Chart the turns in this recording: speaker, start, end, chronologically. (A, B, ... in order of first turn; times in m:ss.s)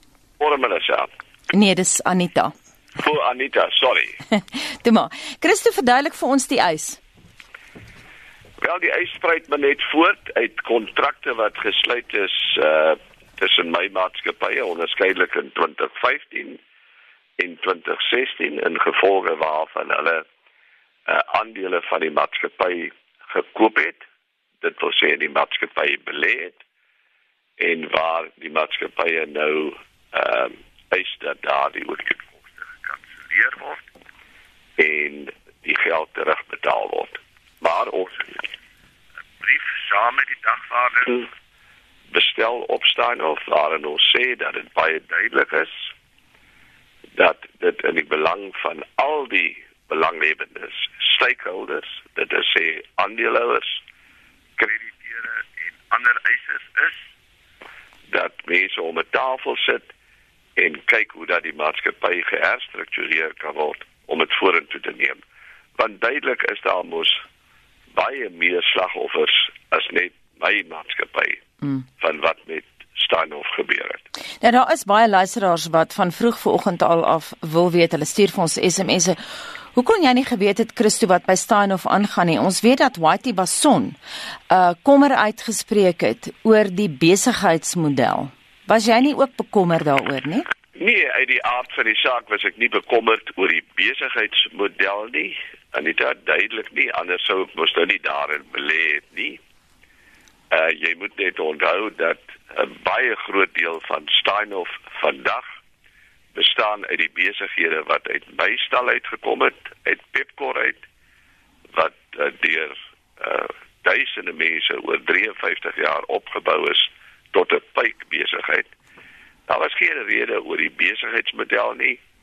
0:00.4-0:01.1 A
0:01.5-0:02.5 B
0:03.0-0:04.2 A
0:04.3-0:07.0 B
0:08.6-0:16.6 A
0:17.4-0:20.2 A
0:21.1-0:24.0 A
0:24.6-0:26.6 A
0:27.6-0:33.8 A
0:34.8-0:38.5 A
0:39.4-0:41.3 A
0:42.1-0:45.9 A
0:47.2-0:53.8 A
0:54.6-0:57.0 A
0:58.1-0:59.9 A
1:00.6-1:05.2 A
1:05.8-1:07.2 A
1:07.9-1:11.4 A
1:12.0-1:14.0 A
1:14.4-1:19.2 B
1:19.7-1:24.0 B
1:24.5-1:30.4 B
1:30.8-1:39.4 A
1:40.5-1:45.4 A
1:46.3-1:50.8 A
1:51.7-1:58.7 A
1:59.5-2:02.0 A